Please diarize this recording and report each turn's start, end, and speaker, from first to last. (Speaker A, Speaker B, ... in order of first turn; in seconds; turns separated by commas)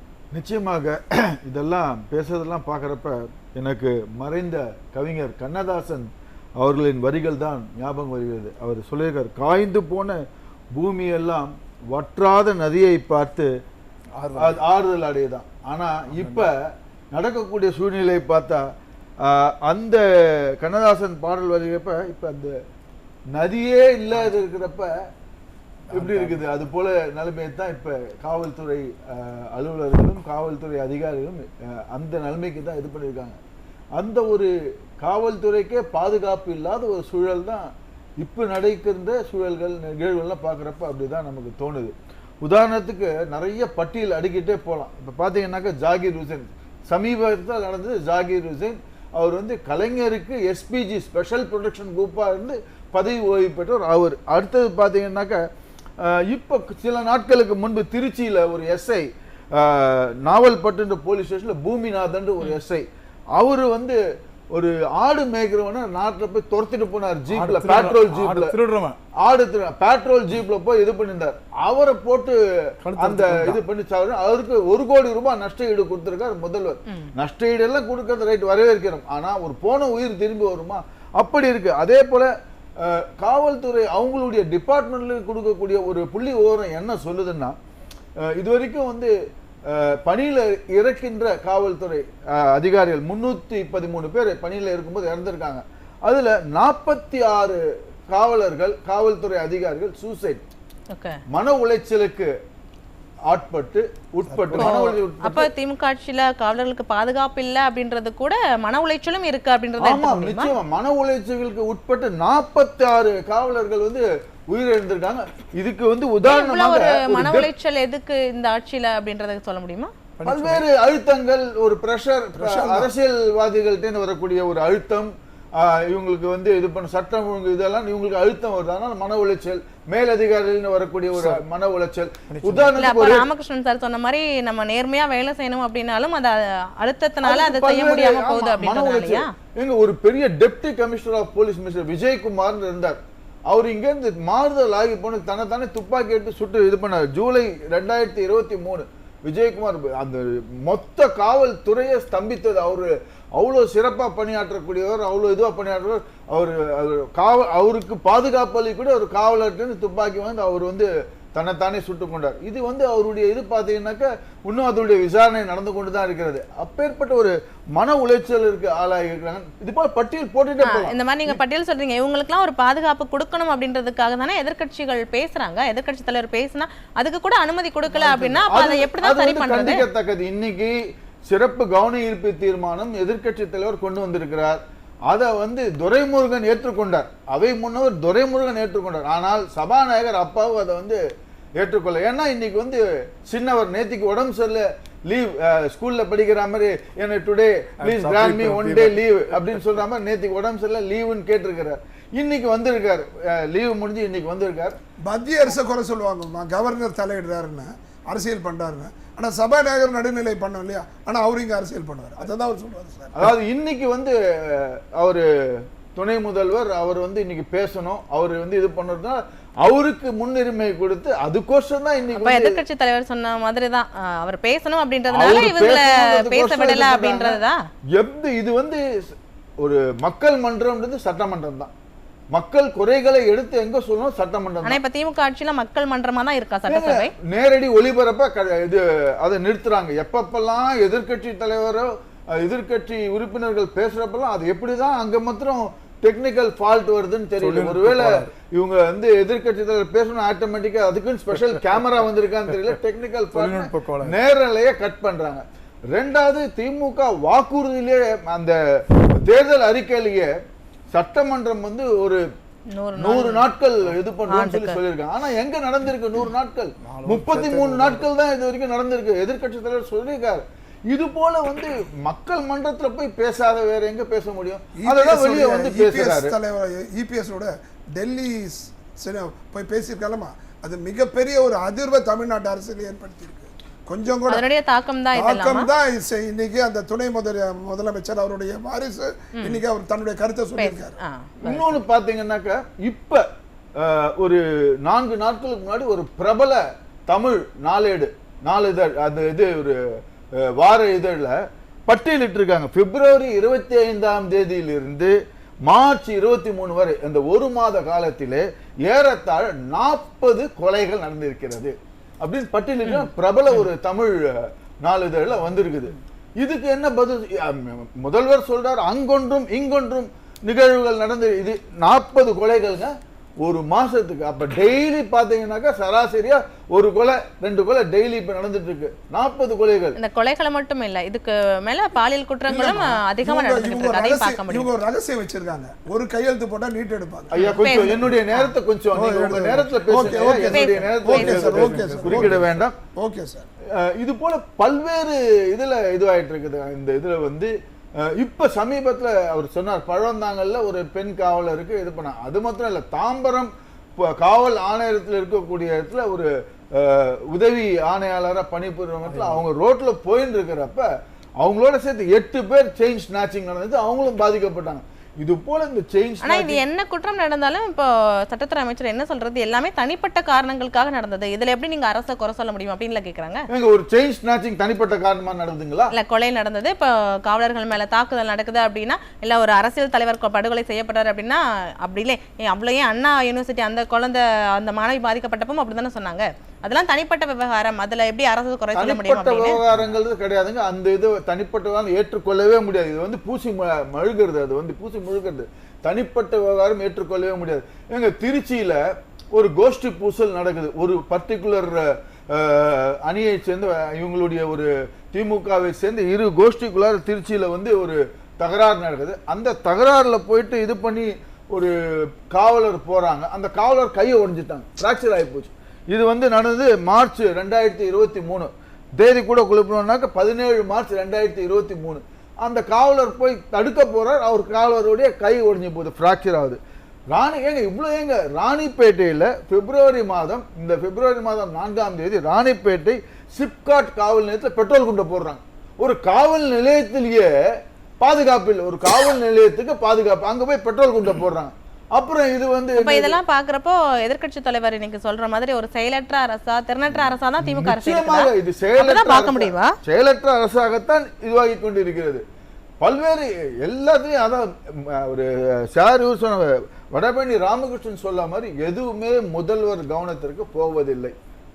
Speaker A: 0.3-10.2, Speaker A: 10.8-13.5, Speaker B: 14.2-14.6, Speaker A: 14.3-16.5, Speaker B: 16.1-16.5, Speaker A: 17.1-18.7, Speaker A: 19.2-20.0, Speaker A: 20.6-22.5, Speaker A: 23.4-24.9, Speaker A: 25.9-33.4, Speaker B: 25.9-26.4, Speaker A: 34.0-37.7, Speaker A: 38.2-55.4, Speaker A: 56.0-62.9, Speaker A: 63.4-64.0, Speaker A: 64.5-68.6, Speaker B: 67.3-69.0, Speaker A: 69.2-87.5, Speaker B: 72.8-73.6, Speaker A: 88.3-89.1, Speaker A: 89.7-100.5, Speaker C: 100.9-101.2, Speaker A: 101.3-102.3, Speaker A: 103.3-105.5, Speaker B: 104.3-104.8, Speaker C: 104.6-110.5, Speaker A: 109.8-117.5, Speaker C: 116.2-119.9, Speaker B: 120.2-120.6, Speaker A: 120.2-133.3, Speaker D: 122.4-122.9, Speaker B: 131.2-131.4, Speaker B: 132.3-132.8, Speaker C: 132.8-139.3, Speaker A: 137.2-143.0, Speaker A: 143.5-171.4, Speaker C: 170.6-179.8, Speaker A: 177.9-180.8, Speaker A: 181.3-191.0, Speaker A: 191.6-204.8, Speaker B: 197.8-199.0, Speaker D: 205.1-213.2, Speaker A: 213.2-215.2, Speaker A: 215.9-222.5, Speaker C: 222.1-227.6, Speaker A: 225.1-227.4, Speaker A: 228.0-228.8, Speaker A: 229.6-231.7, Speaker A: 232.3-234.8, Speaker C: 234.6-237.1, Speaker A: 236.7-260.3, Speaker B: 247.4-248.3, Speaker B: 251.3-251.9, Speaker B: 253.3-254.2, Speaker A: 260.9-262.2, Speaker C: 262.8-263.5, Speaker A: 263.0-276.3, Speaker C: 264.3-264.8, Speaker B: 266.8-268.1, Speaker D: 274.8-284.4, Speaker C: 284.3-285.7, Speaker D: 285.1-291.0, Speaker C: 290.6-291.8, Speaker A: 291.4-293.2, Speaker A: 293.8-299.8, Speaker A: 300.4-305.1, Speaker A: 305.7-322.9, Speaker C: 312.9-313.1, Speaker A: 323.4-330.0, Speaker C: 330.0-334.7, Speaker D: 332.5-338.1, Speaker A: 337.3-342.8, Speaker C: 337.4-338.5, Speaker D: 338.9-343.5, Speaker C: 340.5-341.5, Speaker B: 341.3-342.5, Speaker A: 343.8-347.5, Speaker A: 348.0-360.9, Speaker B: 359.1-359.4, Speaker A: 361.4-366.6, Speaker C: 366.2-373.4, Speaker A: 373.5-375.9, Speaker C: 375.9-389.6, Speaker A: 388.8-398.8, Speaker B: 389.7-390.0, Speaker A: 399.4-411.7, Speaker A: 412.3-426.6, Speaker A: 427.1-437.3, Speaker A: 438.0-443.2, Speaker C: 442.8-449.7, Speaker A: 447.4-452.2, Speaker A: 452.8-461.1